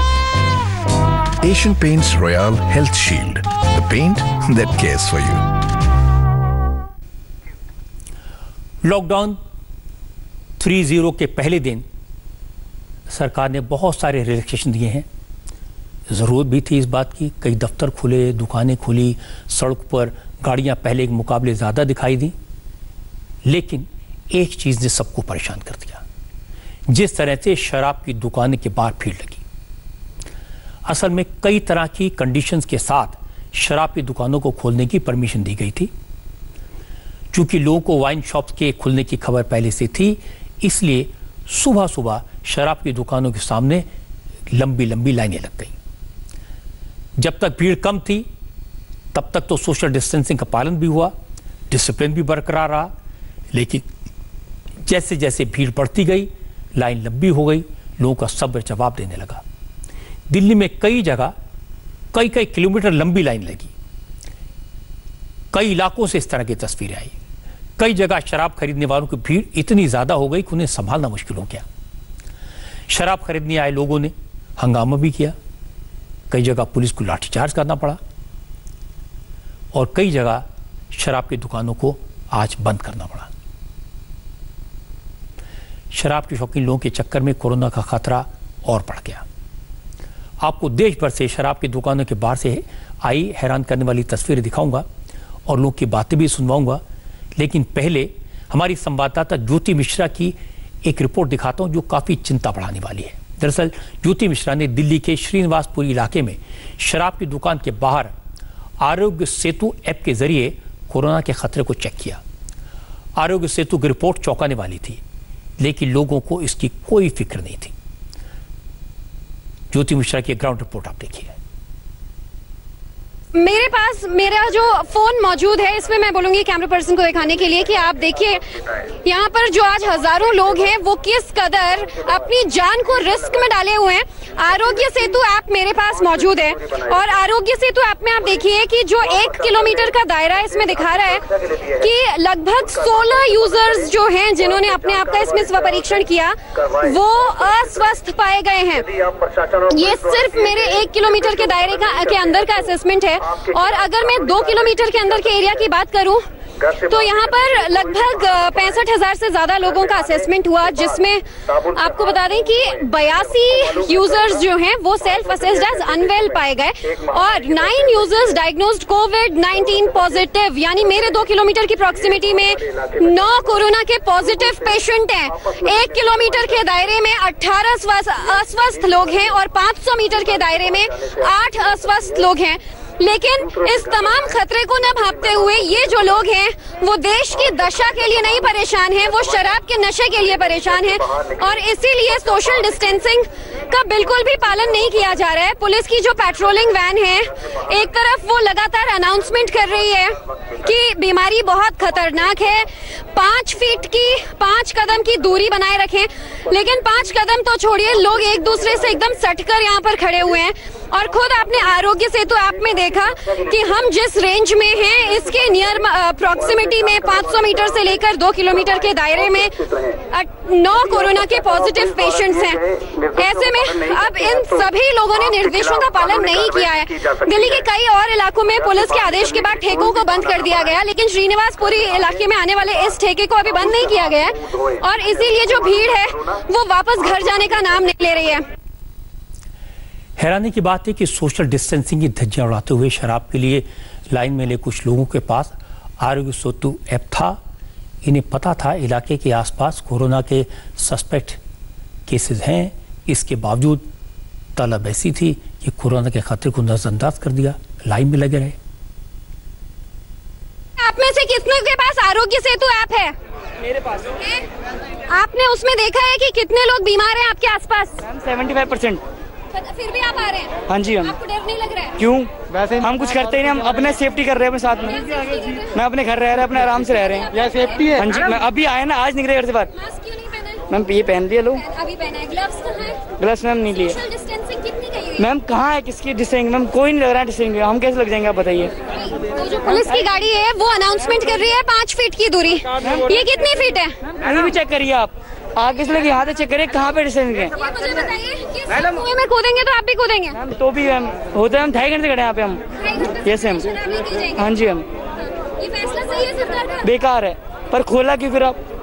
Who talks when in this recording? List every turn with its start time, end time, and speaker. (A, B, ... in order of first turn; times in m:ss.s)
0:01.4-0:05.4 A
0:08.8-0:09.4 B
0:10.6-0:11.8 B
0:13.1-0:15.0 B
0:16.1-0:22.3 B
0:23.4-0:26.0 B
0:26.9-0:29.4 B
0:30.8-0:35.9 B
0:37.3-0:43.9 B
0:44.5-0:45.7 B
0:47.2-0:48.3 B
0:49.1-0:51.1 B
0:51.7-0:52.9 B
0:53.5-0:53.8 B
0:54.8-0:59.4 B
1:00.3-1:01.3 B
1:02.1-1:03.7 B
1:05.5-1:07.1 B
1:07.8-1:11.6 B
1:12.9-1:15.3 B
1:16.3-1:18.0 B
1:19.7-1:23.3 B
1:25.9-1:29.2 B
1:30.4-1:34.8 B
1:35.4-1:36.8 B
1:37.4-1:48.1 B
1:48.8-1:52.2 B
1:53.2-1:55.0 B
1:55.6-1:57.7 B
1:59.7-2:01.4 B
2:03.3-2:08.5 C
2:09.0-2:29.0 C
2:29.6-3:58.5 C
4:00.2-4:07.4 B
4:08.0-4:11.4 B
4:12.1-4:13.9 B
4:14.6-4:18.6 B
4:20.8-4:23.1 C
4:25.1-4:28.0 C
4:28.0-4:29.0 D
4:29.5-4:32.0 C
4:30.7-4:31.2 D
4:32.0-4:35.0 D
4:34.9-4:35.6 C
4:35.7-4:37.3 D
4:37.4-4:37.8 C
4:37.9-4:39.7 D
4:40.0-4:40.4 C
4:40.7-4:41.6 D
4:41.6-4:43.1 C
4:43.2-4:44.0 D
4:44.0-4:45.2 C
4:45.2-4:48.7 D
4:49.0-4:54.0 C
4:52.8-4:53.1 D
4:54.1-4:57.6 D
4:57.6-5:00.4 C
5:00.4-5:02.6 D
5:02.8-5:04.4 C
5:03.2-5:03.8 D
5:04.4-5:04.8 D
5:05.6-5:06.8 C
5:06.8-5:08.6 D